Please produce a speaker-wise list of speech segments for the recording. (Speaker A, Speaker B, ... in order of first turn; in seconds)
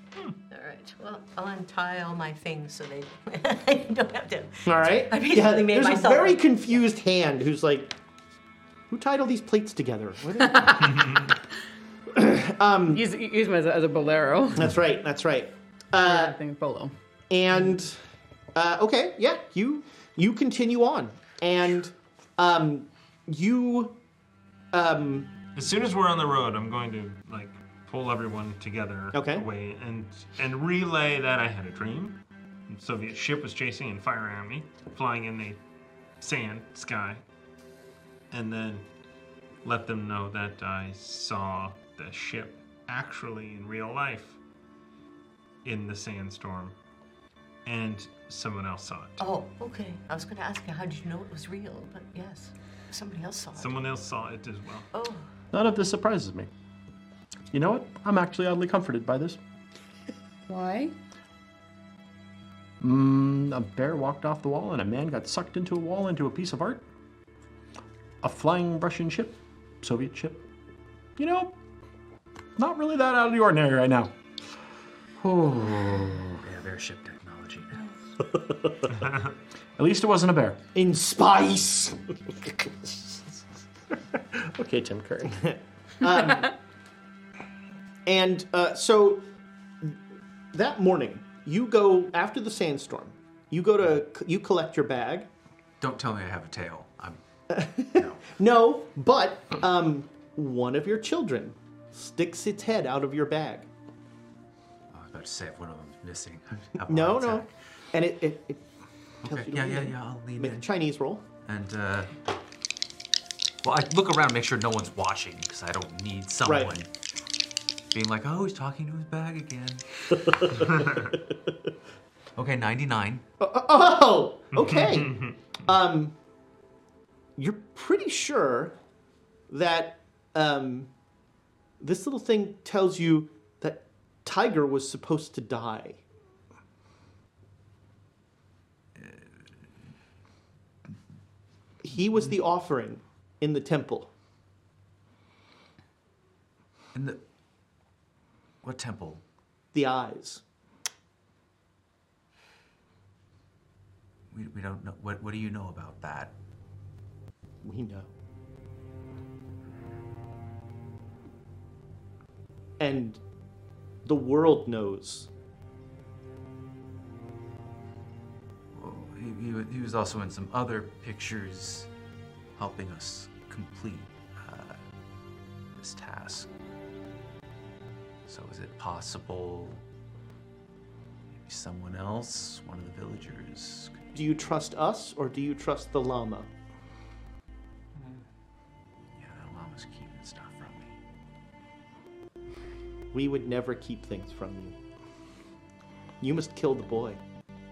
Speaker A: 0.5-6.8, 49.2-53.7, 54.9-55.2
Speaker B: 4.7-7.9, 8.9-11.2, 12.1-13.0, 14.6-16.3, 17.3-18.0, 18.5-24.0, 24.7-25.3, 29.1-29.4, 80.7-82.0, 85.3-86.5, 88.0-89.2, 90.5-95.3, 97.5-103.7, 106.8-108.6, 109.2-111.2, 116.4-116.7, 120.4-120.9, 123.4-126.1, 127.4-128.7, 129.5-130.9, 131.8-136.0, 141.8-144.1, 149.7-150.4, 157.6-158.1, 162.8-163.2, 164.0-165.3, 184.1-186.5, 193.1-194.7, 196.2-197.2
Speaker C: 10.5-10.8, 12.9-14.7, 16.0-16.9, 60.5-60.9
Speaker D: 10.9-11.2, 25.6-35.6, 36.2-37.2, 38.3-38.8, 39.6-44.4, 45.6-46.7, 47.6-49.2, 53.5-54.9, 124.5-125.3
Speaker E: 55.5-56.5, 57.5-59.4, 62.8-66.8, 68.2-70.4, 71.2-71.5, 72.5-74.1, 75.2-76.4, 79.8-80.6, 84.2-85.4
Speaker F: 76.4-77.9, 95.8-97.2, 97.9-98.2, 104.9-107.5, 109.2-110.7, 111.4-112.1, 113.6-116.9, 117.9-119.8, 122.4-123.2, 139.0-139.2, 146.9-147.2, 148.6-149.2, 154.3-156.3, 168.7-171.9, 172.6-174.8, 175.7-176.5, 178.2-179.8, 181.4-184.0, 189.2-190.9